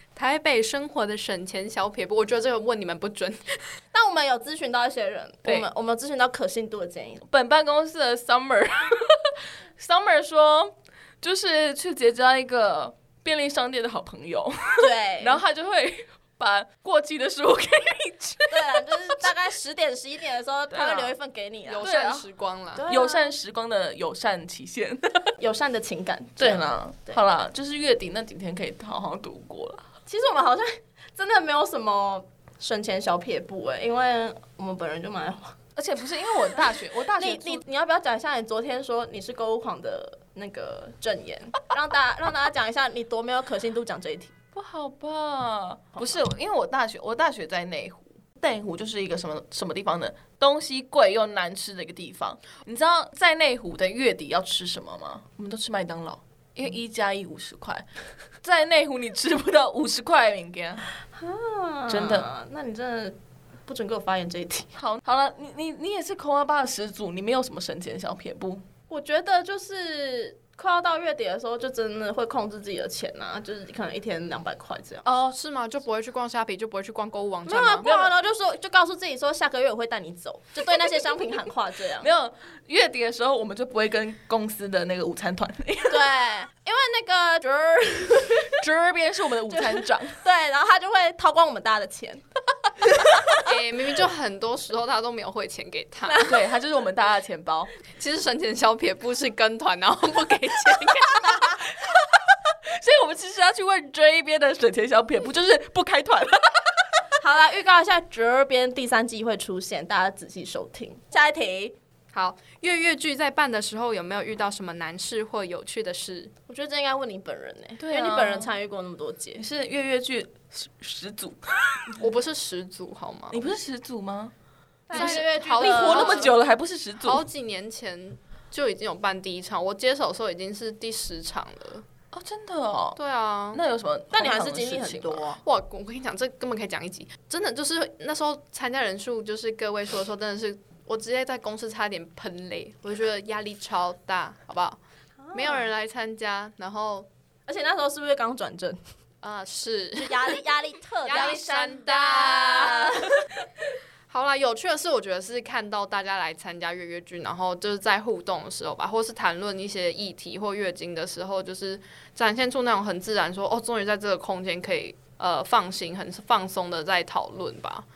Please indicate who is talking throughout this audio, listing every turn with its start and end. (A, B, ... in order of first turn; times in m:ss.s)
0:00.2-0:03.6 A
0:03.9-0:07.2 B
0:07.3-0:19.3 C
0:14.8-0:15.4 B
0:18.5-0:21.9 B
0:20.7-0:21.1 C
0:21.7-0:22.9 A
0:21.8-0:22.2 C
0:22.8-0:23.4 B
0:22.8-0:25.4 C
0:25.4-0:27.2 B
0:26.4-0:29.8 C
0:30.1-0:35.5 B
0:35.8-0:37.6 C
0:37.2-0:44.4 B
0:44.5-0:57.9 C
0:58.4-1:00.9 C
1:01.2-1:04.7 B
1:01.9-1:02.3 C
1:04.8-1:08.6 C
1:08.9-1:15.1 B
1:15.1-1:15.3 C
1:15.2-1:18.1 A
1:17.5-1:22.1 B
1:22.0-1:26.1 C
1:25.9-1:28.6 B
1:28.6-1:30.2 C
1:29.5-1:32.2 B
1:32.9-1:33.3 B
1:33.4-1:36.4 A
1:36.2-1:37.7 C
1:38.0-1:41.7 A
1:42.5-1:46.7 C
1:47.2-1:51.8 B
1:52.1-1:56.3 A
1:56.5-1:59.4 B
1:57.8-1:58.5 C
1:59.4-2:02.0 C
2:02.0-2:03.5 A
2:03.3-2:04.3 C
2:04.9-2:06.3 B
2:04.9-2:07.2 C
2:04.9-2:06.4 A
2:07.0-2:11.9 A
2:12.1-2:13.0 C
2:13.0-2:13.6 A
2:13.5-2:15.2 C
2:14.1-2:15.4 B
2:15.4-2:24.8 A
2:25.2-2:25.7 B
2:25.3-2:27.1 A
2:27.5-2:28.8 B
2:29.2-2:30.4 A
2:30.0-2:33.1 B
2:31.0-2:33.0 A
2:31.1-2:33.0 C
2:34.1-2:47.9 A